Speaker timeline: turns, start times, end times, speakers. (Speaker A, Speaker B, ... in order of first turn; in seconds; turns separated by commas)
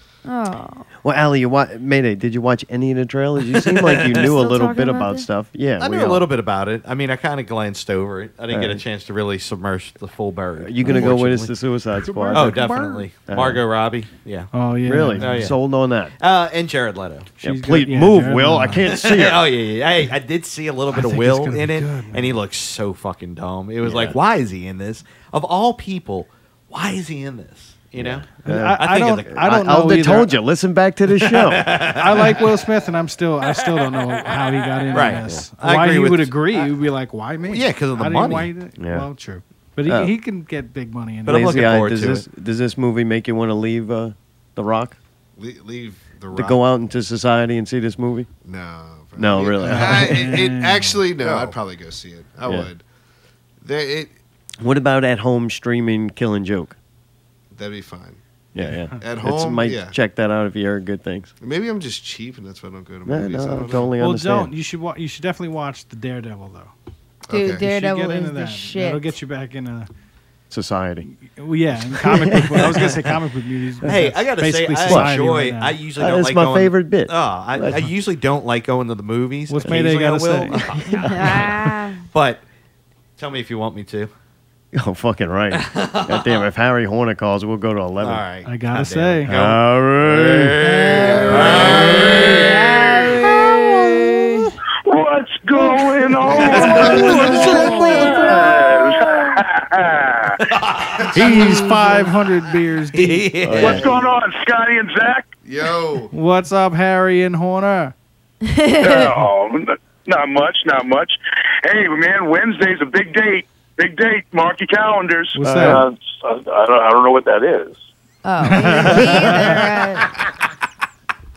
Speaker A: 0.2-0.9, Speaker B: 1.0-6.3, Speaker C: 3.5-4.3, Speaker A: 4.2-5.3, Speaker C: 5.8-11.5, Speaker B: 8.5-8.8, Speaker B: 10.6-13.6, Speaker C: 12.3-14.5, Speaker D: 14.5-15.5, Speaker B: 14.8-16.1, Speaker C: 15.2-15.6, Speaker C: 16.2-17.3, Speaker D: 17.4-18.9, Speaker B: 17.4-19.5, Speaker C: 18.8-29.4, Speaker D: 20.9-22.4, Speaker B: 23.8-24.2, Speaker B: 28.0-31.8, Speaker D: 28.4-30.3, Speaker C: 31.1-32.6, Speaker D: 32.0-41.5, Speaker C: 34.9-36.6, Speaker B: 35.1-35.5, Speaker C: 37.5-38.5, Speaker B: 38.8-39.1, Speaker B: 39.8-40.1, Speaker C: 41.2-42.2, Speaker B: 41.2-45.0, Speaker E: 45.4-46.6, Speaker B: 46.3-48.3, Speaker E: 48.4-52.8, Speaker B: 49.1-50.3, Speaker D: 49.6-51.1, Speaker E: 53.6-54.1, Speaker B: 54.6-56.8, Speaker E: 57.5-58.2, Speaker B: 58.5-61.3, Speaker E: 59.0-59.9, Speaker E: 61.4-63.9, Speaker B: 63.0-64.5, Speaker D: 64.0-66.7, Speaker E: 67.3-67.6, Speaker A: 67.3-69.1, Speaker D: 67.5-69.9, Speaker B: 70.5-71.1, Speaker D: 71.0-75.8, Speaker B: 72.1-72.8, Speaker C: 72.6-73.1, Speaker C: 73.8-82.4, Speaker B: 74.8-75.2, Speaker B: 75.9-77.9, Speaker D: 79.5-80.7, Speaker A: 80.9-82.0, Speaker C: 83.2-84.1, Speaker B: 84.7-88.2, Speaker C: 85.5-86.5, Speaker C: 88.0-93.0, Speaker D: 88.4-89.3, Speaker B: 89.3-92.2, Speaker D: 90.6-91.5, Speaker A: 92.3-94.2, Speaker F: 94.8-100.4, Speaker B: 96.4-98.3, Speaker C: 96.5-97.5, Speaker A: 97.2-98.6, Speaker C: 100.4-102.0, Speaker D: 101.1-103.3, Speaker C: 102.9-104.0, Speaker B: 103.4-104.0, Speaker F: 103.6-105.3, Speaker E: 105.4-106.1, Speaker D: 106.1-107.9, Speaker A: 108.4-109.1, Speaker F: 108.8-115.4, Speaker D: 115.3-115.8, Speaker B: 115.4-115.8, Speaker A: 118.2-120.1, Speaker D: 118.4-119.6, Speaker B: 119.1-119.4